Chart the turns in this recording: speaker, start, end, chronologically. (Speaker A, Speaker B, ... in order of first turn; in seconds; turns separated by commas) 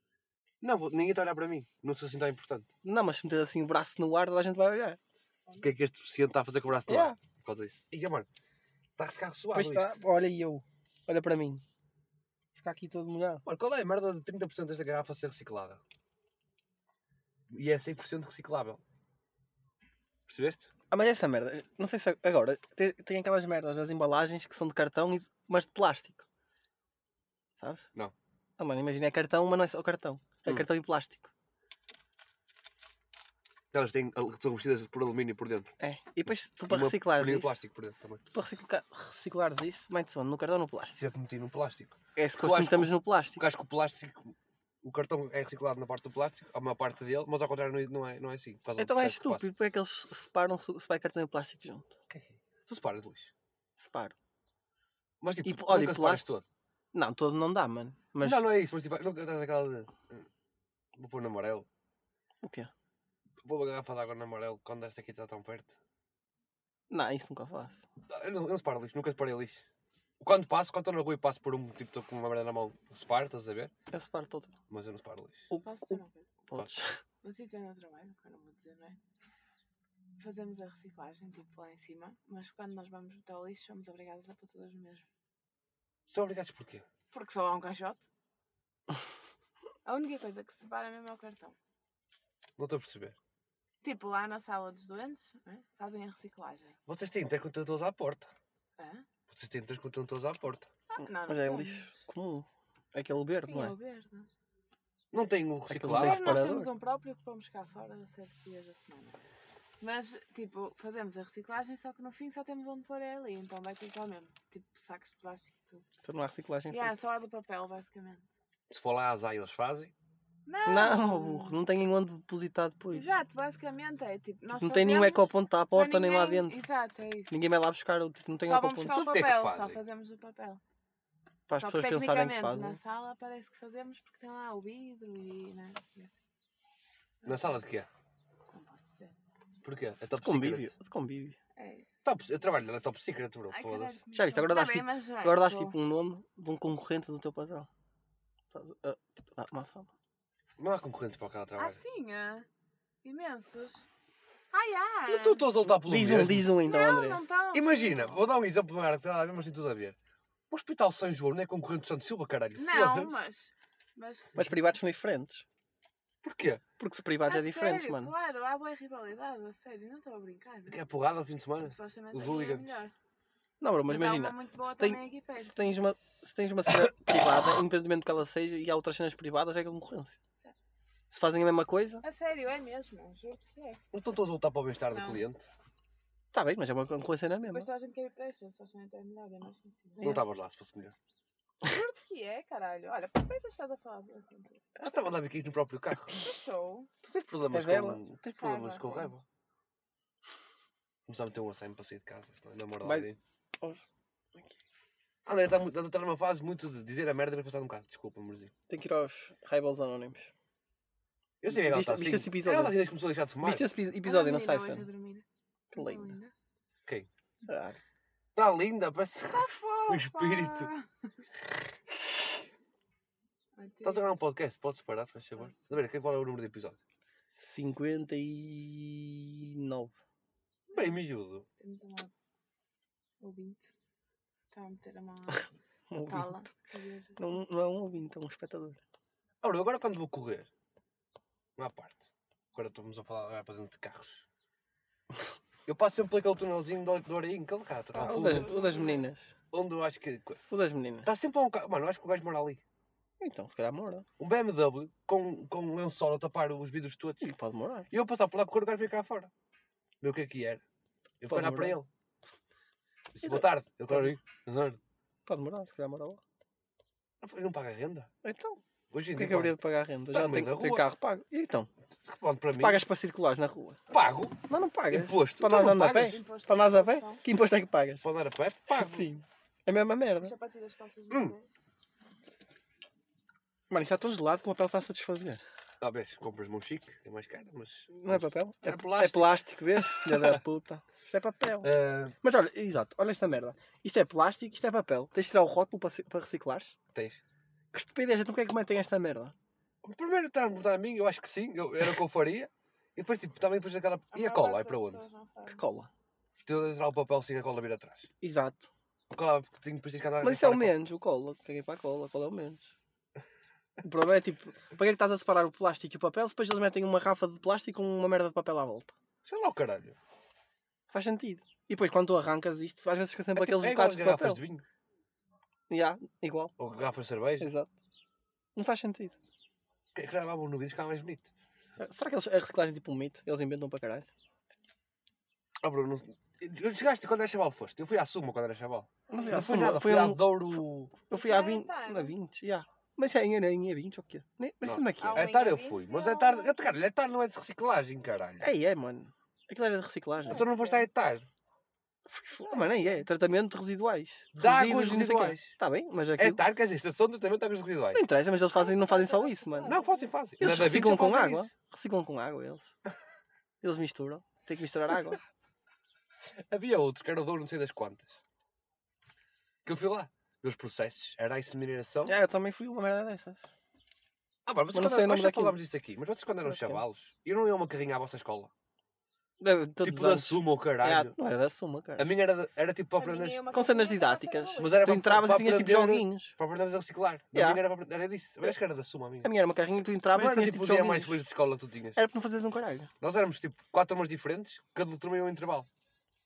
Speaker A: 0.6-2.7, Speaker B: 2.8-5.0, Speaker A: 5.6-8.3, Speaker B: 6.9-7.2, Speaker A: 9.0-10.0, Speaker B: 9.5-11.6, Speaker B: 12.5-13.4, Speaker A: 13.4-15.8, Speaker A: 17.5-18.8, Speaker A: 20.3-20.7, Speaker B: 20.9-26.2, Speaker B: 27.6-27.9, Speaker B: 28.6-31.3, Speaker A: 33.7-35.7, Speaker B: 35.8-37.6, Speaker A: 36.7-38.2, Speaker B: 38.3-41.0, Speaker A: 41.0-49.5, Speaker B: 42.1-43.4, Speaker B: 48.8-51.9, Speaker A: 52.1-53.3, Speaker B: 53.8-54.1, Speaker A: 55.2-56.5, Speaker B: 55.4-56.2, Speaker B: 56.9-58.4, Speaker A: 58.2-60.3, Speaker A: 61.0-61.7, Speaker B: 62.4-62.7, Speaker A: 63.4-65.8, Speaker B: 66.9-67.8, Speaker A: 68.1-69.6, Speaker A: 70.2-73.7, Speaker B: 73.9-74.5, Speaker A: 74.7-75.5, Speaker B: 75.5-77.0, Speaker C: 75.6-76.3, Speaker C: 77.2-79.0, Speaker C: 80.2-85.0, Speaker A: 86.1-86.8, Speaker C: 87.1-88.1, Speaker C: 89.8-91.5, Speaker A: 92.6-93.2, Speaker C: 93.8-96.8, Speaker A: 96.9-98.3, Speaker C: 98.8-99.1, Speaker A: 99.3-100.7, Speaker C: 100.9-101.9, Speaker B: 101.0-103.7, Speaker C: 103.4-104.3, Speaker A: 105.1-106.5, Speaker B: 105.7-106.7, Speaker C: 105.9-109.2, Speaker C: 109.8-115.8, Speaker B: 116.0-116.9, Speaker C: 116.7-118.3, Speaker A: 118.7-119.9, Speaker C: 120.5-121.6, Speaker B: 120.7-123.1, Speaker C: 122.9-127.4, Speaker B: 124.5-126.6, Speaker B: 127.3-128.9, Speaker C: 128.4-130.6, Speaker A: 128.9-129.8, Speaker B: 131.5-132.8, Speaker C: 131.6-136.2, Speaker C: 137.2-137.5, Speaker A: 137.2-137.9, Speaker C: 138.5-139.1, Speaker A: 139.6-140.7, Speaker B: 140.2-141.4, Speaker C: 141.6-142.1, Speaker A: 142.0-144.0, Speaker C: 143.5-145.8, Speaker B: 144.1-147.7, Speaker B: 148.5-149.9, Speaker A: 150.6-151.8, Speaker C: 151.6-152.5, Speaker C: 153.0-153.9, Speaker C: 154.5-155.4, Speaker A: 155.1-156.5, Speaker B: 155.8-157.2, Speaker C: 156.6-158.2, Speaker A: 157.5-160.0, Speaker A: 160.5-163.3, Speaker C: 162.6-164.8, Speaker B: 164.3-165.4, Speaker A: 166.2-166.6, Speaker B: 166.8-168.1, Speaker C: 167.3-170.8, Speaker A: 170.7-172.7, Speaker C: 171.6-172.9, Speaker B: 173.6-180.2, Speaker C: 173.9-175.8, Speaker B: 181.1-182.0, Speaker C: 182.0-183.8, Speaker A: 183.9-185.5, Speaker C: 184.9-185.2, Speaker B: 186.3-187.7, Speaker C: 187.5-190.1, Speaker A: 190.0-190.9, Speaker C: 191.6-194.6, Speaker A: 194.8-196.2, Speaker C: 196.1-196.9, Speaker A: 197.0-199.2, Speaker B: 197.5-198.0, Speaker C: 198.4-199.1, Speaker A: 201.1-203.2, Speaker B: 202.8-203.1, Speaker A: 205.2-208.5, Speaker B: 208.7-210.3, Speaker A: 211.4-213.7, Speaker B: 211.5-212.8, Speaker B: 213.4-214.9, Speaker C: 214.0-216.3, Speaker B: 215.7-216.1, Speaker B: 217.4-217.8, Speaker A: 218.3-220.7, Speaker C: 219.3-221.1, Speaker C: 223.6-224.1, Speaker A: 223.8-226.8, Speaker B: 227.4-229.9, Speaker A: 230.7-231.5, Speaker C: 230.7-231.0, Speaker C: 231.6-232.1, Speaker C: 233.2-233.7, Speaker C: 234.5-237.4, Speaker B: 235.3-236.5, Speaker B: 237.2-238.8, Speaker A: 239.4-240.5, Speaker A: 241.6-244.3, Speaker A: 245.7-248.5, Speaker C: 247.9-249.1, Speaker B: 248.0-249.3, Speaker A: 249.5-250.4, Speaker B: 250.5-251.1, Speaker A: 251.0-252.6, Speaker B: 253.2-254.1, Speaker A: 254.2-257.3, Speaker B: 257.2-257.9, Speaker A: 257.9-259.3, Speaker A: 260.0-260.6, Speaker A: 261.2-261.9, Speaker B: 261.3-261.8, Speaker A: 263.1-264.8, Speaker B: 263.2-264.1, Speaker B: 265.2-266.2, Speaker A: 267.2-268.1, Speaker B: 268.2-268.6, Speaker A: 268.9-269.5, Speaker B: 269.1-271.7, Speaker A: 270.1-270.9, Speaker A: 272.0-272.8, Speaker B: 272.6-273.8, Speaker A: 273.9-274.4, Speaker B: 274.5-278.0, Speaker A: 274.9-276.2, Speaker C: 275.9-277.2, Speaker A: 278.0-279.1, Speaker B: 278.7-280.3, Speaker C: 280.2-281.5, Speaker A: 281.1-281.3, Speaker B: 283.7-285.4, Speaker A: 285.8-290.4, Speaker B: 287.9-291.7, Speaker A: 291.6-292.1, Speaker B: 292.2-296.7, Speaker A: 296.9-297.2, Speaker B: 297.7-299.3, Speaker A: 299.8-305.0, Speaker C: 304.1-305.6, Speaker B: 305.5-305.9, Speaker A: 306.4-308.1, Speaker B: 308.2-308.7, Speaker A: 309.1-310.7, Speaker B: 310.2-312.7, Speaker B: 313.8-318.9, Speaker A: 319.2-319.9, Speaker B: 320.9-324.4, Speaker A: 323.3-324.6, Speaker B: 325.7-326.5, Speaker A: 326.6-327.5, Speaker B: 327.4-327.7, Speaker B: 328.5-329.2, Speaker A: 329.9-331.3, Speaker B: 331.8-334.1, Speaker A: 335.6-340.9, Speaker B: 339.1-345.3, Speaker C: 341.1-342.1, Speaker A: 344.6-348.5, Speaker C: 345.0-346.6, Speaker B: 348.4-350.4, Speaker C: 350.3-350.9, Speaker A: 350.3-351.3, Speaker B: 352.1-356.4, Speaker C: 352.4-353.1, Speaker A: 354.3-355.5, Speaker A: 356.2-358.1, Speaker B: 357.9-359.8, Speaker C: 358.5-360.1, Speaker A: 359.7-361.5, Speaker B: 360.4-362.7, Speaker B: 363.6-365.2, Speaker A: 366.4-368.2, Speaker A: 369.6-372.1, Speaker B: 372.1-373.4, Speaker A: 374.4-378.5, Speaker B: 374.7-375.6, Speaker B: 376.4-376.8, Speaker B: 379.4-382.1, Speaker A: 379.8-381.1, Speaker A: 382.0-383.4, Speaker C: 383.0-384.9, Speaker B: 383.5-386.3, Speaker A: 384.6-389.3, Speaker B: 387.3-387.6, Speaker B: 389.2-391.2, Speaker A: 390.1-392.0, Speaker B: 391.9-392.9, Speaker A: 393.0-395.7